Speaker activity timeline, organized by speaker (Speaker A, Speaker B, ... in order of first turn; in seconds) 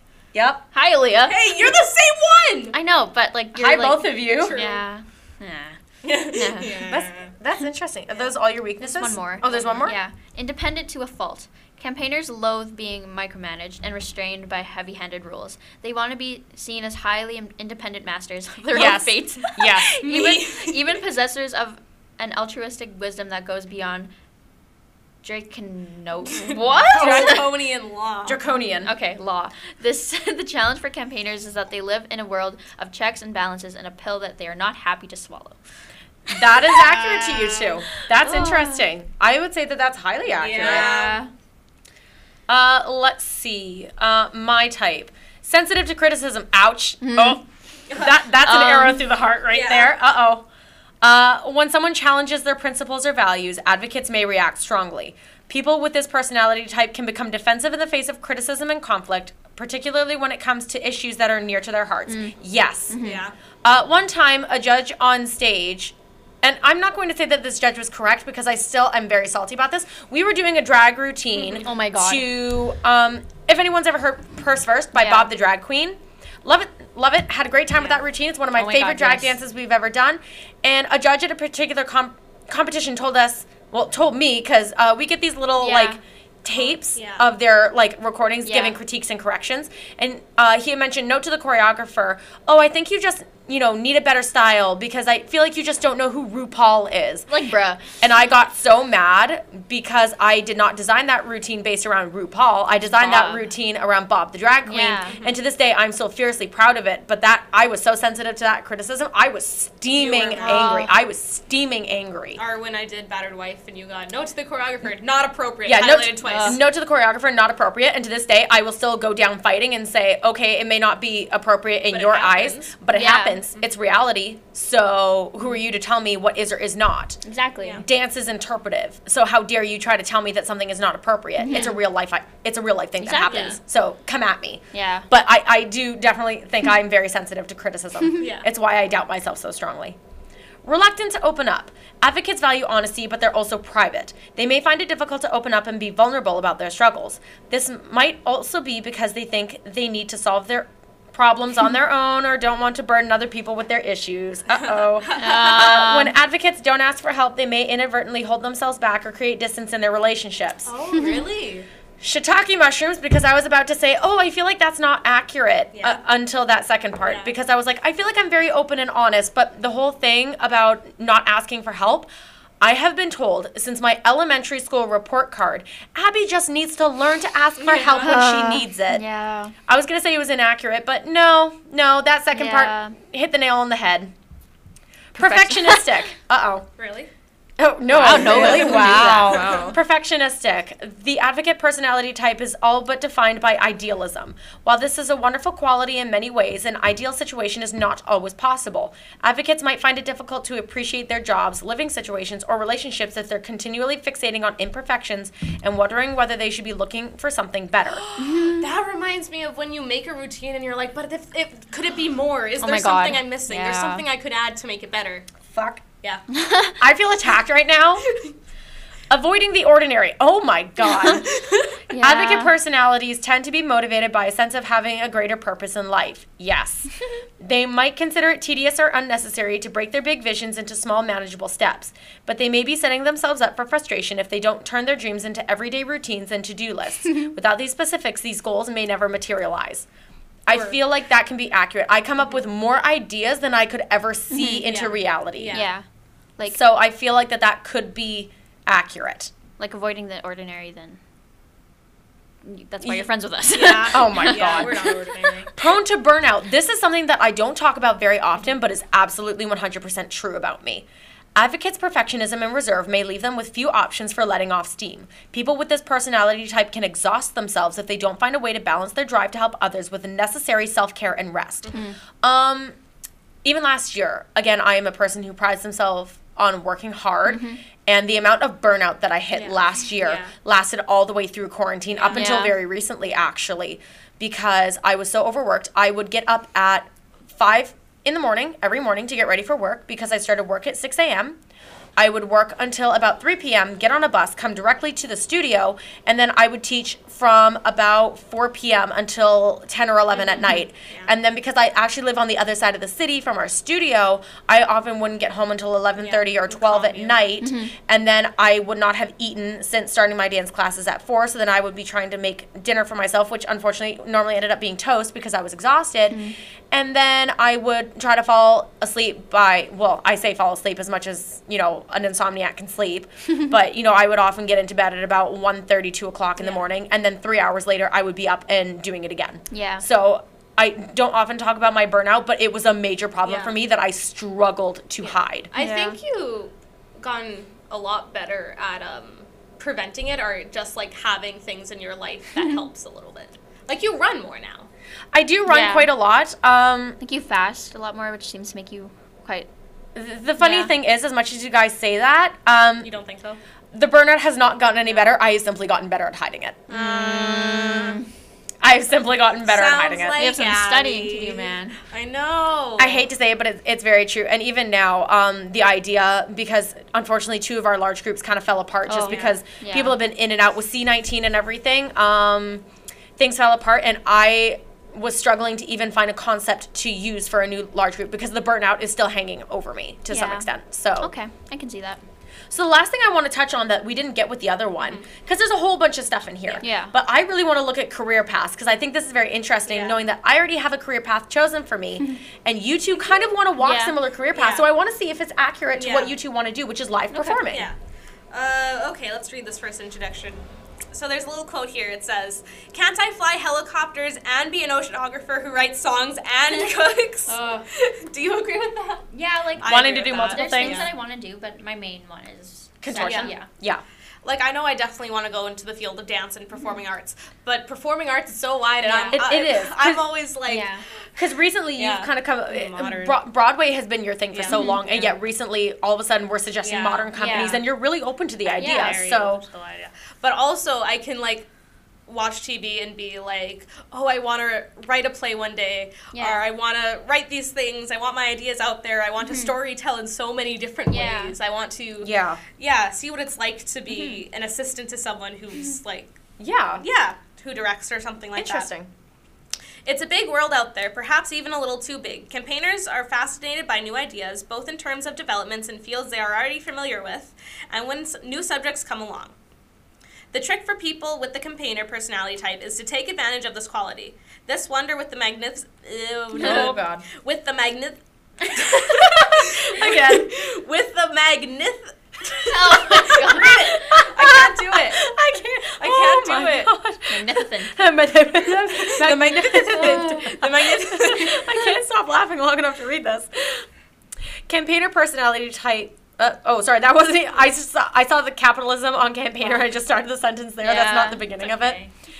Speaker A: 0.3-0.6, 3.5-4.6, 6.8-9.9, 18.7-20.3, 26.9-27.4, 28.2-28.9, 36.3-40.9, 42.5-50.4, 51.0-63.0, 63.6-97.3, 98.0-112.4, 115.6-127.2, 127.8-140.0, 140.6-160.7, 162.0-172.1, 172.6-179.0, 179.7-184.1, 185.1-186.7, 187.6-208.0, 215.5-215.8, 216.8-218.1, 219.1-221.3, 222.0-239.9, 240.5-245.6, 246.5-249.3, 253.9-254.9, 255.5-272.8, 273.4-291.4, 292.0-316.2, 316.7-335.5, 345.1-347.0, 349.9-352.9, 353.7-356.7, 358.6-360.2, 362.8-372.6, 373.2-381.1, 382.5-397.7, 409.6-410.9, 412.8-413.8, 419.1-420.0, 421.1-429.4, 442.0-442.4, 446.4-446.8, 448.4-448.9, 466.4-466.9, 468.8-470.3, 473.1-483.7, 484.5-491.8
Speaker B: 0.7-1.5, 2.7-6.8, 8.8-24.1, 25.2-27.5, 28.8-35.6, 38.1-38.8, 40.6-41.3, 47.0-47.4, 48.4-49.0, 62.1-62.4, 62.9-63.2, 71.4-72.3, 74.9-75.3, 78.5-79.4, 85.6-86.0, 88.4-88.8, 97.3-97.9, 102.9-103.5, 104.7-105.1, 110.4-110.9, 116.2-116.6, 122.9-123.4, 127.2-127.8, 131.4-131.8, 133.0-133.6, 134.7-135.1, 155.1-156.1, 160.9-161.3, 178.0-179.5, 182.3-183.0, 185.1-186.0, 187.9-189.8, 208.2-208.7, 212.6-214.0, 216.3-216.8, 221.9-222.5, 244.3-244.7, 245.5-245.8, 249.6-251.0, 252.4-255.3, 271.7-272.0, 277.2-277.6, 282.1-282.6, 300.4-300.6, 307.4-307.7, 316.1-316.4, 329.5-329.8, 335.6-336.0, 345.5-345.9, 347.0-349.5, 350.4-350.7, 356.7-358.1, 360.1-361.8, 368.9-370.0, 380.1-382.0, 386.6-386.9, 393.6-393.9, 397.1-397.4, 407.3-407.6, 409.1-413.5, 418.8-419.2, 420.5-420.8, 424.5-424.8, 427.1-427.6, 428.6-429.0, 436.1-436.4, 439.2-439.5, 440.9-441.3, 443.9-444.2, 466.4-467.0, 468.5-468.8, 472.3-473.9, 477.1-477.7, 479.8-480.2, 490.6-491.3
Speaker C: 1.2-2.7, 4.3-4.8, 6.0-7.3, 19.9-20.8, 26.3-28.4, 36.7-37.8, 40.4-41.2, 47.9-48.2, 49.5-49.9, 63.0-63.3, 77.8-78.0, 86.6-87.3, 109.9-110.8, 112.4-116.6, 121.9-122.8, 133.3-133.6, 138.2-138.5, 154.6-155.5, 160.7-161.7, 165.7-166.0, 167.0-167.3, 177.6-178.2, 186.8-187.1, 188.1-189.7, 207.9-215.3, 221.0-221.7, 240.5-240.8, 244.6-245.7, 253.5-255.5, 279.3-280.3, 281.9-282.4, 306.0-307.2, 333.2-333.6, 335.0-344.7, 352.8-353.4, 354.9-355.1, 356.7-358.0, 359.4-363.1, 369.1-369.4, 384.8-385.1, 389.7-390.0, 394.3-394.7, 395.8-396.1, 397.5-397.8, 398.3-410.9, 413.0-413.3, 414.2-420.7, 421.8-423.2, 424.3-425.1, 426.6-427.6, 428.4-431.5, 432.1-446.1, 446.8-448.7, 449.8-459.3, 460.3-476.7, 478.6-481.6, 491.3-491.9